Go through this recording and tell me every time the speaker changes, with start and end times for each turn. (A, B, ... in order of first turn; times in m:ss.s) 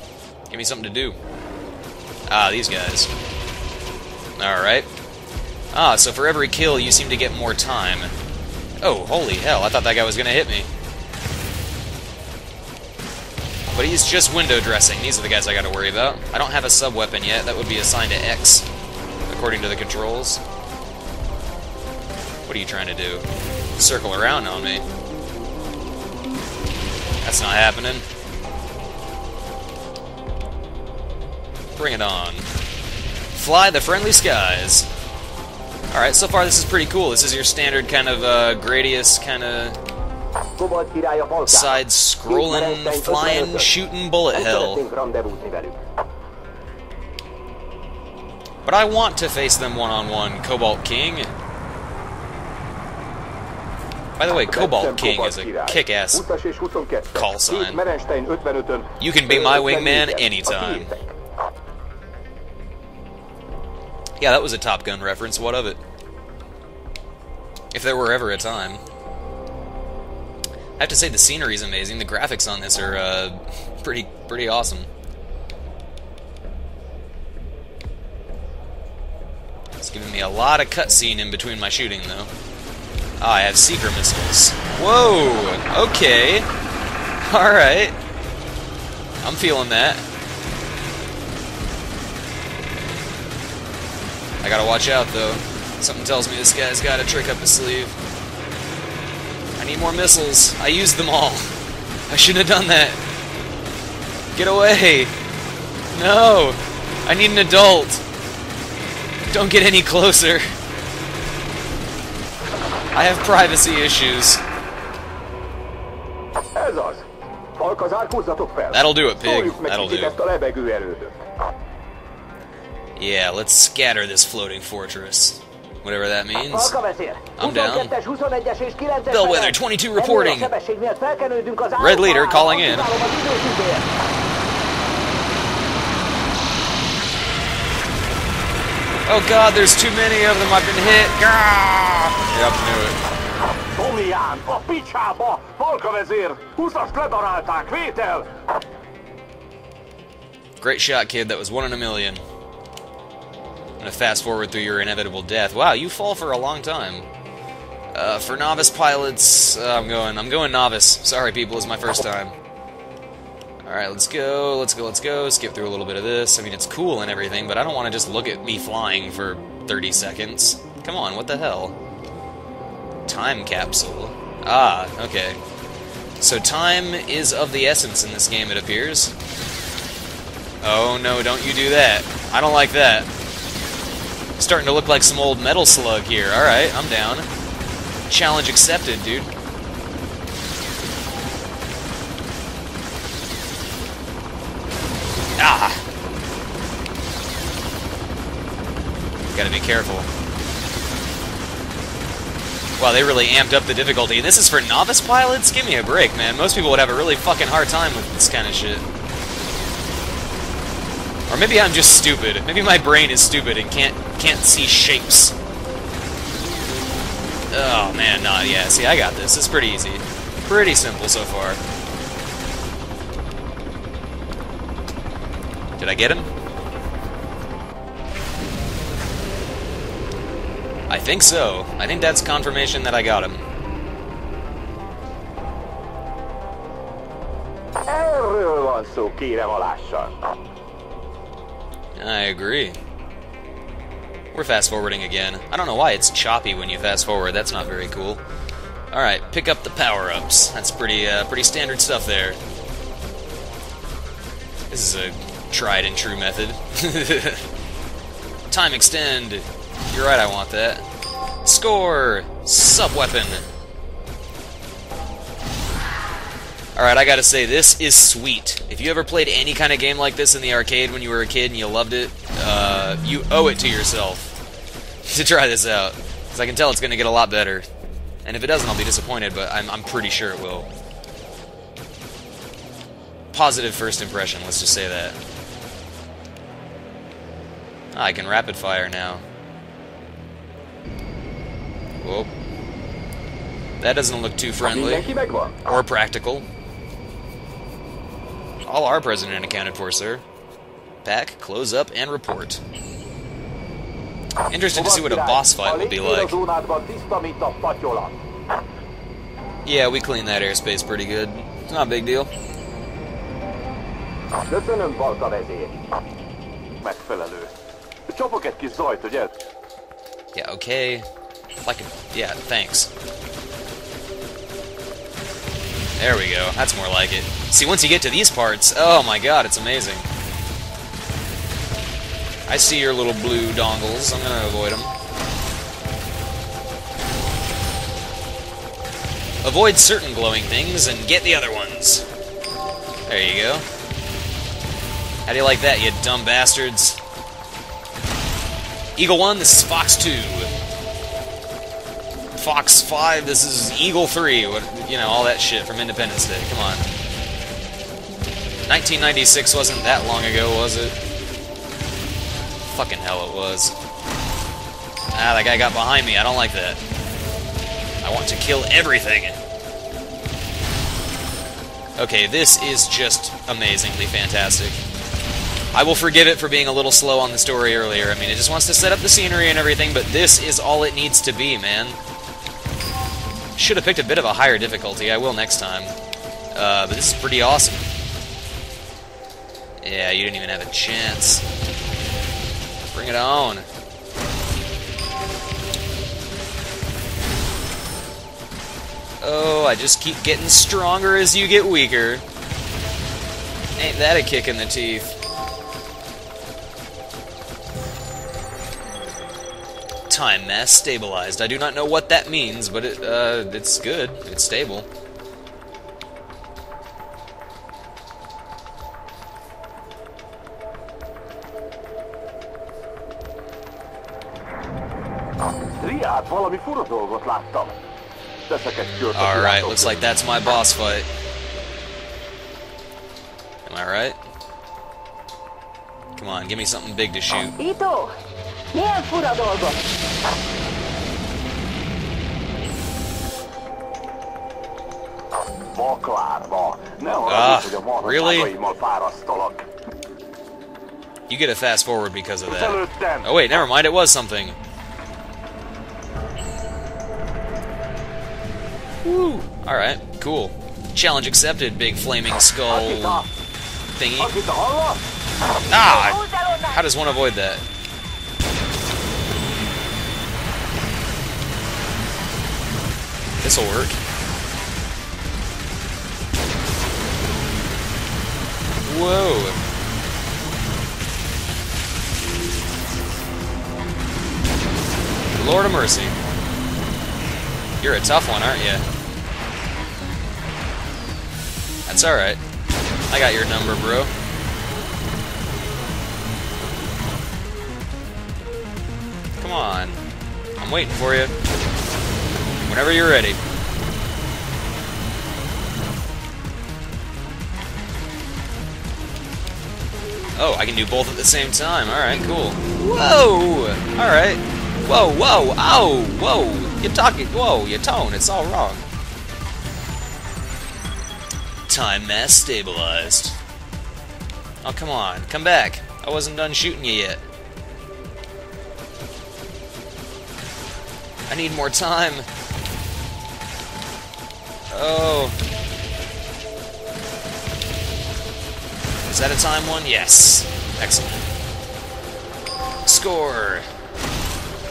0:00.5-0:01.2 A
0:02.3-0:03.1 A
0:04.4-0:04.9 A
0:05.7-0:08.1 A
0:08.8-0:10.7 A
0:13.8-0:18.7 A
0:19.3-0:20.4 A
0:22.5-0:23.3 A
0:23.8-0:24.8 A
0:27.2-0:28.1 A
0:31.8-0:32.5 A
0:33.3-0:34.9 A
0:35.9-0:39.8 A
0:40.6-0:43.8 B
0:41.5-0:44.8 A
0:44.3-0:45.8 B
0:48.7-0:51.3 A
0:54.2-0:56.2 A
0:54.5-1:01.1 B
0:57.1-0:57.8 A
0:59.0-1:00.9 A
1:04.2-1:05.8 A
1:07.7-1:08.8 A
1:10.8-1:14.9 A
1:19.8-1:22.3 A
1:23.2-1:26.5 A
1:27.2-1:28.0 A
1:29.2-1:30.0 A
1:34.4-1:38.0 A
1:39.6-1:41.5 A
1:42.1-1:43.0 A
1:44.4-1:45.1 A
1:45.9-1:48.0 A
1:49.3-1:50.5 A
1:52.9-1:54.4 A
1:56.6-1:57.0 B
1:57.6-2:01.2 B
1:58.7-2:00.2 A
2:03.0-2:06.7 A
2:06.5-2:13.9 B
2:07.4-2:07.9 A
2:09.1-2:10.5 A
2:11.8-2:12.9 A
2:19.1-2:23.0 A
2:23.8-2:28.3 B
2:30.6-2:32.2 A
2:33.8-2:37.1 A
2:37.9-2:42.4 A
2:43.7-2:51.8 A
2:53.1-2:55.4 A
2:56.2-2:59.2 A
3:00.6-3:03.1 A
3:04.4-3:07.3 A
3:08.1-3:09.3 A
3:15.4-3:15.8 A
3:19.3-3:20.1 A
3:22.8-3:28.8 A
3:31.3-3:35.4 A
3:37.5-3:41.6 A
3:45.8-3:46.3 A
3:50.9-3:53.4 A
3:57.9-4:00.2 B
4:02.0-4:02.8 A
4:04.3-4:08.2 A
4:08.9-4:12.4 A
4:14.7-4:17.5 A
4:18.5-4:20.8 A
4:21.4-4:23.4 A
4:26.8-4:34.4 A
4:35.0-4:37.7 A
4:38.2-4:40.7 A
4:43.3-4:45.2 A
4:47.9-4:49.2 A
4:52.0-4:52.3 A
4:53.8-4:55.1 A
4:54.6-4:55.6 B
4:55.6-4:56.5 A
4:58.6-5:00.2 A
5:01.0-5:02.6 A
5:04.5-5:06.4 A
5:04.7-5:08.2 B
5:09.6-5:12.3 A
5:14.5-5:15.7 B
5:16.8-5:17.5 B
5:18.1-5:19.3 B
5:20.4-5:21.1 A
5:21.7-5:22.9 A
5:26.0-5:30.1 A
5:32.5-5:34.9 A
5:39.4-5:42.1 A
5:43.1-5:43.6 A
5:45.3-5:47.0 A
5:49.0-5:50.5 A
5:52.4-5:56.9 A
5:58.7-6:01.0 A
6:02.6-6:03.8 A
6:05.1-6:06.8 A
6:08.0-6:09.4 A
6:12.0-6:14.8 A
6:15.7-6:22.0 A
6:23.6-6:26.0 A
6:26.5-6:27.9 A
6:29.8-6:31.4 A
6:32.8-6:33.7 A
6:39.2-6:42.2 A
6:43.8-6:45.2 A
6:50.1-6:54.9 A
7:05.8-7:07.8 B
7:08.5-7:10.0 B
7:09.1-7:11.1 A
7:13.7-7:14.2 A
7:16.2-7:17.6 A
7:17.6-7:18.2 C
7:18.7-7:19.8 C
7:25.8-7:29.6 B
7:27.2-7:28.5 A
7:31.3-7:34.6 A
7:32.5-7:33.3 B
7:39.0-7:43.3 A
7:42.7-7:43.3 B
7:43.9-7:44.3 A
7:44.2-7:45.0 B
7:45.6-7:47.6 A
7:45.8-7:46.7 C
7:53.4-7:54.0 A
7:58.8-7:59.6 A
8:05.4-8:06.2 A
8:07.8-8:08.8 A
8:11.9-8:12.4 A
8:13.1-8:14.1 A
8:19.4-8:20.0 A
8:20.6-8:21.3 A
8:22.7-8:23.4 A
8:30.4-8:38.8 A
8:41.7-8:43.4 A
8:44.6-8:47.2 A
8:51.3-8:52.3 A
8:54.7-8:55.4 A
8:59.1-9:01.3 A
9:02.9-9:03.7 A